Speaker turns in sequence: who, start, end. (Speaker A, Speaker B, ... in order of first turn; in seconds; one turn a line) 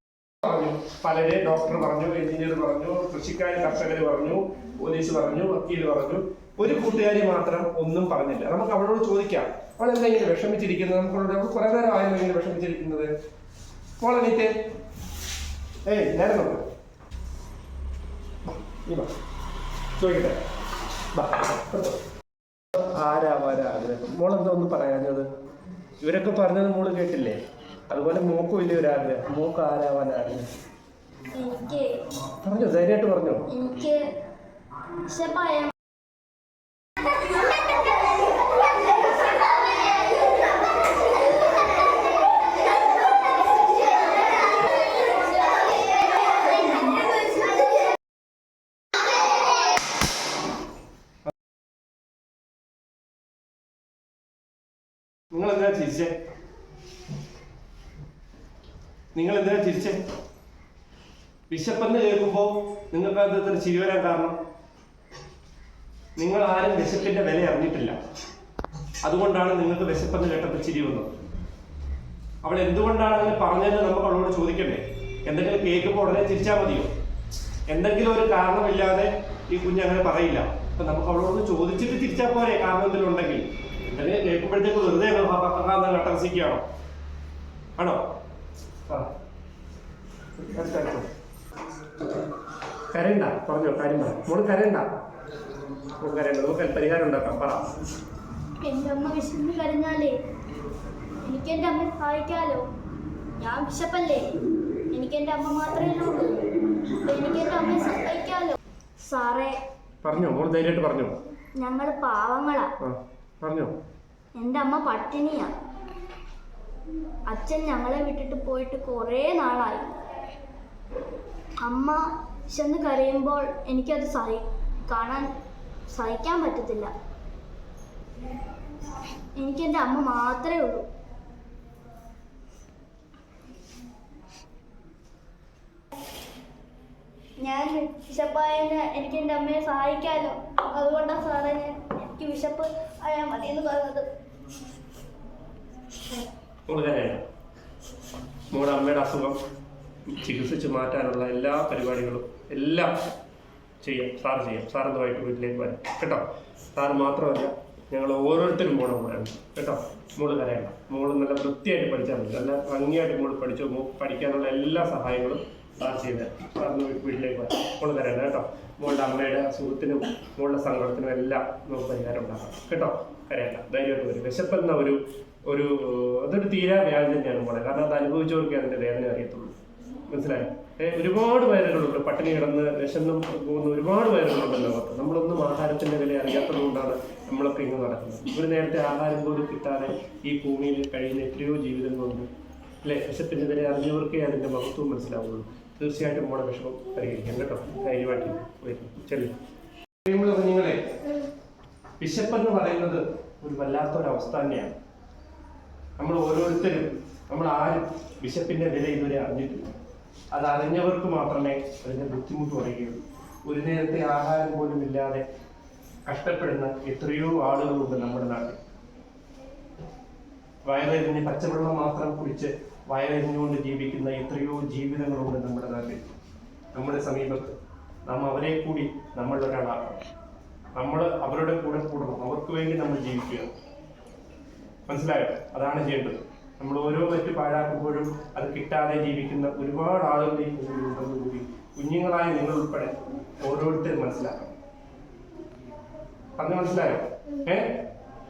Speaker A: 0.4-13.1
Speaker A: 14.0-14.5
Speaker A: 15.8-16.6
Speaker A: 18.8-19.1
Speaker A: 20.0-20.4
Speaker A: 21.1-22.0
Speaker A: 22.7-25.3
Speaker A: 26.0-27.4
Speaker A: 27.9-30.4
Speaker B: 31.3-32.0
Speaker A: 32.3-33.5
Speaker B: 33.5-34.1
Speaker B: 35.0-35.7
Speaker A: 55.3-56.1
Speaker A: 59.1-60.0
Speaker A: 61.5-64.3
Speaker A: 66.2-67.9
Speaker A: 69.0-71.1
Speaker A: 72.4-76.9
Speaker A: 77.7-86.6
Speaker A: 87.8-88.0
Speaker A: 90.4-91.1
Speaker A: 92.9-94.8
Speaker A: 96.0-97.7
Speaker B: 98.6-100.2
Speaker B: 101.2-102.7
Speaker B: 103.4-104.4
Speaker B: 104.9-109.6
Speaker A: 110.0-111.2
Speaker B: 111.6-112.7
Speaker A: 112.8-113.7
Speaker B: 114.3-115.5
Speaker B: 117.3-119.9
Speaker B: 121.6-125.3
Speaker B: 125.9-126.9
Speaker B: 129.4-130.8
Speaker B: 137.4-144.1
Speaker A: 146.7-147.2
Speaker A: 148.5-149.4
Speaker A: 150.1-152.9
Speaker A: 153.8-179.5
Speaker A: 180.1-192.3
Speaker A: 192.8-199.3
Speaker A: 200.0-200.8
Speaker A: 202.0-204.7
Speaker A: 206.0-209.7
Speaker A: 210.3-215.2
Speaker A: 216.1-218.6
Speaker A: 220.6-226.0
Speaker A: 226.7-227.5
Speaker A: 228.1-230.0
Speaker A: 230.7-233.5
Speaker A: 234.9-244.5
Speaker A: 246.4-247.8